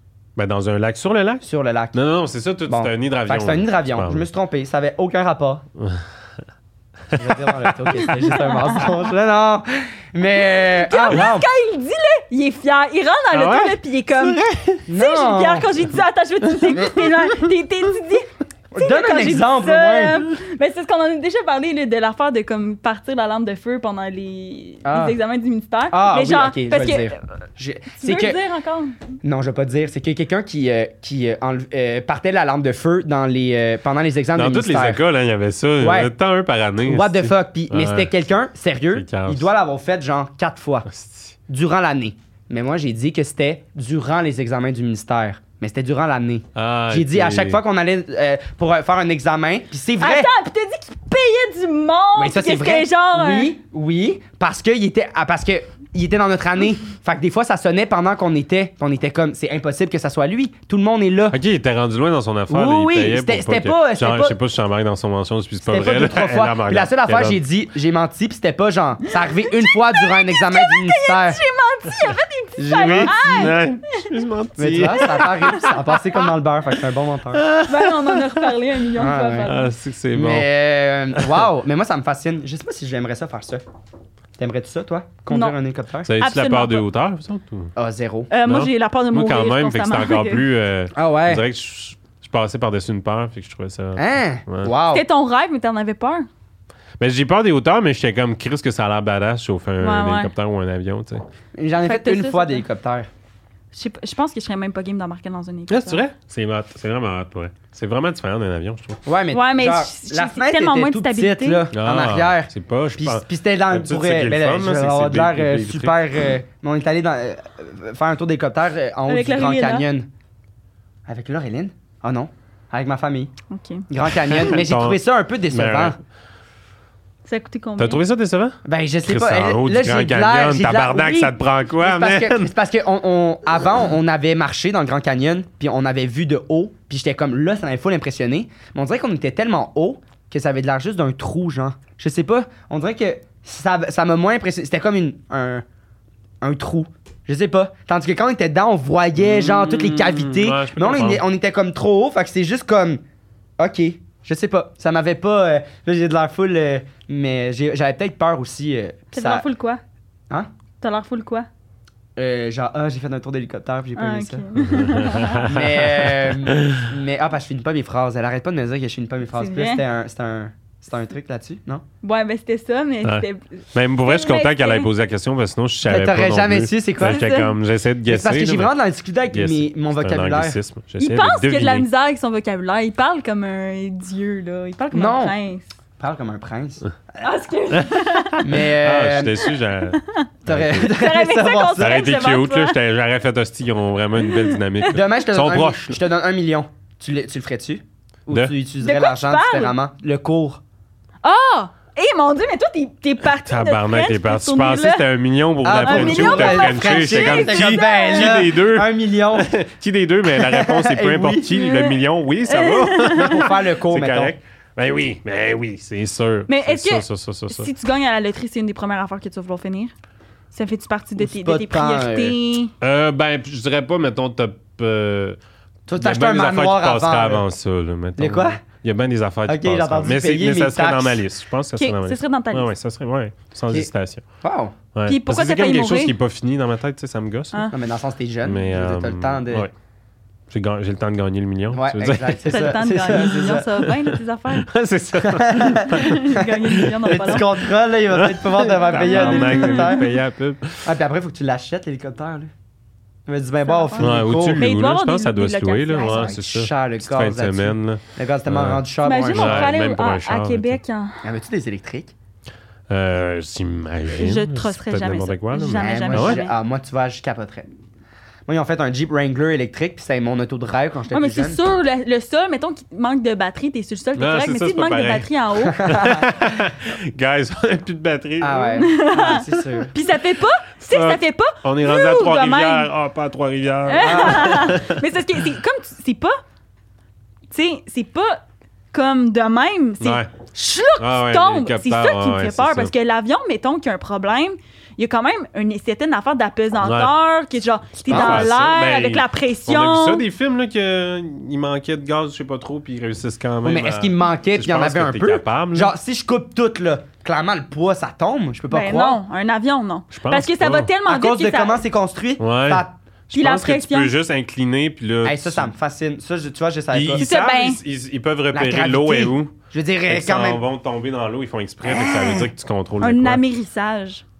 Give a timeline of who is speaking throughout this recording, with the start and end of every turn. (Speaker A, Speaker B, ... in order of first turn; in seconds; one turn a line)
Speaker A: 0.4-4.3
Speaker B: 1.4-2.0
Speaker B: 2.7-5.6
Speaker A: 5.8-6.0
Speaker A: 7.2-8.1
Speaker B: 7.2-11.5
Speaker C: 8.0-8.9
Speaker C: 10.8-14.4
Speaker A: 13.3-14.8
Speaker B: 14.9-15.7
Speaker C: 14.9-27.2
Speaker B: 18.7-20.2
Speaker B: 24.9-25.2
Speaker B: 25.9-28.4
Speaker C: 28.0-29.0
Speaker B: 29.2-35.0
Speaker A: 34.4-38.1
Speaker B: 35.8-36.1
Speaker B: 36.9-40.9
Speaker A: 38.9-39.5
Speaker A: 40.9-41.4
Speaker B: 41.5-50.3
Speaker A: 46.5-47.6
Speaker C: 50.0-53.5
Speaker B: 52.2-61.4
Speaker A: 61.3-67.4
Speaker B: 62.5-64.4
Speaker B: 65.6-71.4
Speaker C: 69.2-74.1
Speaker B: 72.6-73.6
Speaker A: 72.8-75.8
Speaker B: 74.6-77.5
Speaker C: 75.0-75.7
Speaker A: 77.3-78.6
Speaker C: 77.6-79.7
Speaker B: 79.0-79.5
Speaker A: 79.4-80.5
Speaker B: 80.1-83.7
Speaker A: 81.1-81.5
Speaker B: 84.4-86.1
Speaker C: 85.3-85.6
Speaker A: 86.1-87.7
Speaker C: 86.2-86.9
Speaker B: 87.8-88.3
Speaker C: 88.3-90.4
Speaker A: 88.5-94.7
Speaker B: 90.9-91.4
Speaker B: 94.0-95.0
Speaker C: 94.9-96.3
Speaker A: 97.0-101.2
Speaker C: 99.8-100.3
Speaker B: 101.6-103.1
Speaker C: 101.8-102.6
Speaker C: 103.7-106.0
Speaker A: 105.7-109.0
Speaker B: 109.1-120.1
Speaker C: 109.3-111.7
Speaker A: 111.7-116.0
Speaker C: 119.1-119.9
Speaker B: 121.1-123.3
Speaker C: 123.5-123.9
Speaker B: 123.9-126.0
Speaker A: 124.3-126.0
Speaker C: 127.2-128.0
Speaker A: 127.8-132.5
Speaker B: 128.7-145.6
Speaker B: 146.4-153.0
Speaker A: 149.2-151.2
Speaker B: 153.6-159.4
Speaker C: 159.1-159.8
Speaker C: 160.8-161.5
Speaker B: 162.2-164.4
Speaker C: 164.0-165.5
Speaker A: 164.6-166.9
Speaker B: 165.4-171.8
Speaker C: 169.3-169.8
Speaker C: 172.0-174.9
Speaker A: 173.0-178.7
Speaker B: 175.8-177.3
Speaker C: 177.0-177.5
Speaker B: 178.1-180.6
Speaker A: 179.3-181.9
Speaker C: 181.0-185.7
Speaker B: 184.9-185.3
Speaker B: 186.0-187.3
Speaker C: 187.2-188.6
Speaker A: 187.8-190.9
Speaker B: 188.4-189.5
Speaker C: 190.0-192.8
Speaker B: 190.5-192.1
Speaker A: 191.8-196.0
Speaker C: 194.2-194.6
Speaker B: 194.9-200.6
Speaker C: 198.8-199.8
Speaker C: 201.2-205.0
Speaker A: 203.4-217.7
Speaker B: 205.6-209.5
Speaker C: 205.8-208.4
Speaker B: 210.3-211.5
Speaker C: 211.5-213.4
Speaker B: 213.2-214.3
Speaker C: 216.5-219.9
Speaker C: 220.5-222.7
Speaker B: 221.2-222.4
Speaker A: 222.8-225.4
Speaker B: 225.9-227.4
Speaker A: 226.0-234.2
Speaker B: 228.2-228.6
Speaker B: 229.5-231.2
Speaker C: 231.8-232.7
Speaker B: 234.4-234.8
Speaker A: 234.9-237.7
Speaker C: 235.1-236.1
Speaker B: 237.7-239.7
Speaker A: 238.4-239.7
Speaker A: 240.5-243.2
Speaker B: 241.7-243.7
Speaker C: 242.5-244.7
Speaker A: 243.9-247.5
Speaker B: 245.2-250.1
Speaker C: 245.8-247.5
Speaker A: 248.1-250.9
Speaker C: 248.9-250.1
Speaker B: 250.8-252.5
Speaker B: 253.3-254.7
Speaker C: 253.6-256.3
Speaker A: 254.0-260.8
Speaker B: 256.1-259.8
Speaker C: 259.0-261.2
Speaker B: 261.2-262.1
Speaker A: 262.9-266.4
Speaker C: 264.2-266.5
Speaker B: 265.8-267.7
Speaker B: 268.5-271.6
Speaker C: 271.1-276.1
Speaker A: 274.2-275.3
Speaker B: 275.8-276.3
Speaker A: 275.8-278.9
Speaker B: 278.4-279.9
Speaker C: 278.8-282.9
Speaker A: 280.9-285.0
Speaker C: 283.9-286.4
Speaker B: 284.0-284.8
Speaker C: 287.5-300.2
Speaker A: 290.0-290.3
Speaker A: 291.0-292.9
Speaker A: 296.8-297.1
Speaker B: 298.1-298.5
Speaker A: 298.1-305.9
Speaker B: 303.6-309.2
Speaker C: 308.7-311.8
Speaker A: 310.1-310.9
Speaker B: 311.1-312.9
Speaker A: 312.4-315.7
Speaker C: 313.3-314.1
Speaker B: 315.2-317.4
Speaker A: 316.9-319.5
Speaker C: 317.2-317.8
Speaker B: 318.5-320.6
Speaker A: 320.1-323.4
Speaker B: 321.9-322.5
Speaker C: 323.0-324.2